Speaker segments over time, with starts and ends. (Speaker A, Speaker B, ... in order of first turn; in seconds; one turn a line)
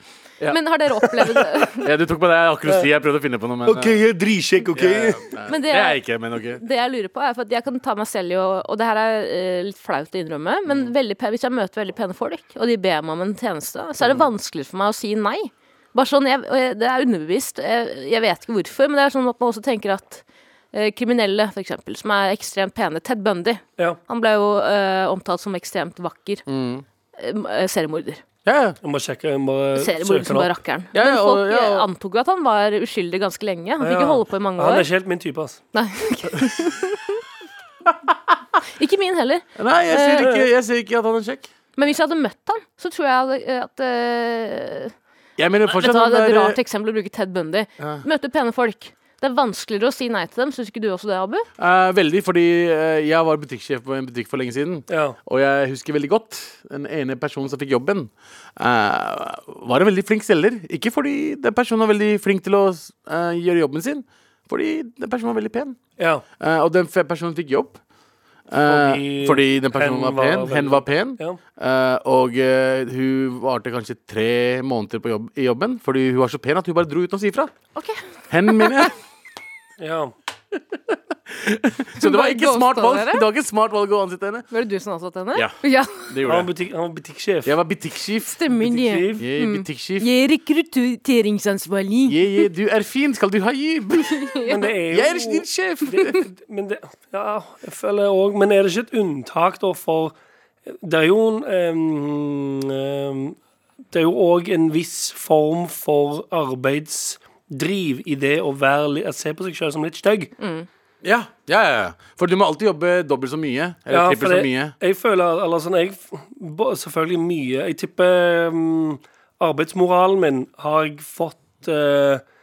Speaker A: 0.5-1.9
Speaker B: 1.2-4.0
Speaker C: 3.6-5.3
Speaker B: 4.7-6.6
Speaker A: 5.5-26.4
Speaker B: 26.5-26.9
Speaker A: 27.2-28.2
Speaker B: 28.4-28.8
Speaker C: 28.8-30.5
Speaker A: 29.8-34.9
Speaker B: 30.9-31.9
Speaker C: 33.8-35.6
Speaker A: 35.7-37.2
Speaker A: 38.8-40.3
Speaker B: 39.6-41.5
Speaker A: 41.8-44.9
Speaker B: 45.4-46.6
Speaker A: 45.7-51.5
Speaker B: 47.8-48.0
Speaker B: 51.6-65.8
Speaker C: 54.9-55.2
Speaker C: 66.0-66.2
Speaker B: 66.4-67.8
Speaker B: 68.5-77.5
Speaker C: 68.7-71.4
Speaker A: 77.8-78.9
Speaker B: 78.3-78.9
Speaker C: 79.8-80.1
Speaker B: 80.5-84.5
Speaker A: 82.0-83.2
Speaker A: 84.5-86.1
Speaker B: 85.3-86.5
Speaker C: 86.2-87.6
Speaker B: 87.5-88.4
Speaker A: 88.2-92.5
Speaker C: 88.6-89.2
Speaker B: 89.2-90.1
Speaker B: 92.1-94.3
Speaker A: 94.1-94.7
Speaker C: 94.5-100.1
Speaker B: 94.9-96.2
Speaker C: 100.7-103.4
Speaker C: 103.9-110.3
Speaker A: 110.4-110.7
Speaker B: 111.0-114.7
Speaker C: 113.9-122.2